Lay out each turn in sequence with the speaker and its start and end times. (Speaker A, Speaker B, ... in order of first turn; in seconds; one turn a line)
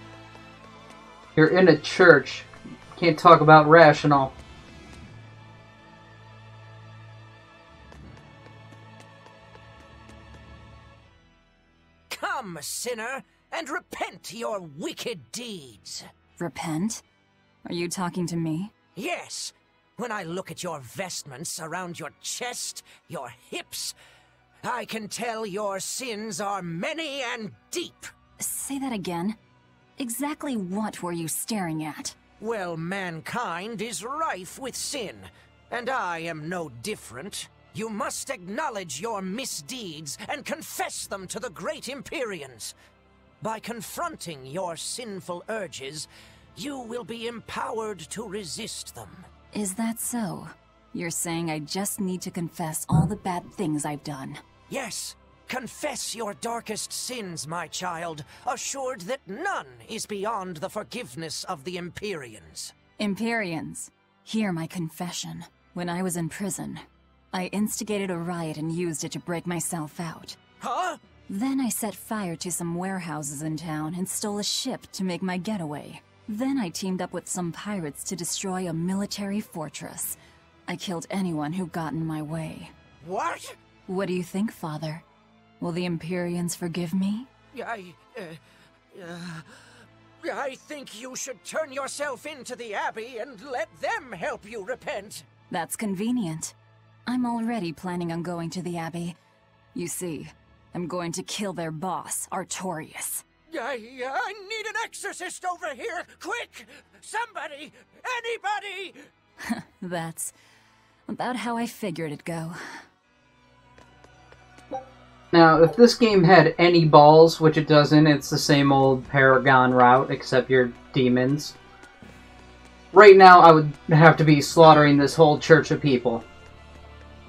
Speaker A: 1.4-4.3
Speaker B: 12.1-16.1
Speaker C: 16.4-17.0
Speaker C: 17.6-18.7
Speaker B: 18.9-23.9
Speaker B: 24.6-28.1
Speaker C: 28.4-29.4
Speaker C: 30.0-32.2
Speaker B: 32.4-42.7
Speaker B: 43.4-49.3
Speaker C: 49.5-54.4
Speaker B: 54.7-62.7
Speaker C: 63.0-70.4
Speaker B: 70.6-71.0
Speaker C: 71.3-82.7
Speaker B: 83.0-83.5
Speaker C: 83.9-85.0
Speaker C: 85.6-87.3
Speaker B: 87.5-88.4
Speaker B: 88.9-89.6
Speaker B: 90.2-95.2
Speaker C: 95.5-96.5
Speaker C: 97.1-99.2
Speaker C: 99.7-103.2
Speaker B: 103.5-109.0
Speaker C: 109.4-110.3
Speaker C: 111.1-112.8
Speaker A: 115.3-121.5
Speaker A: 122.9-126.2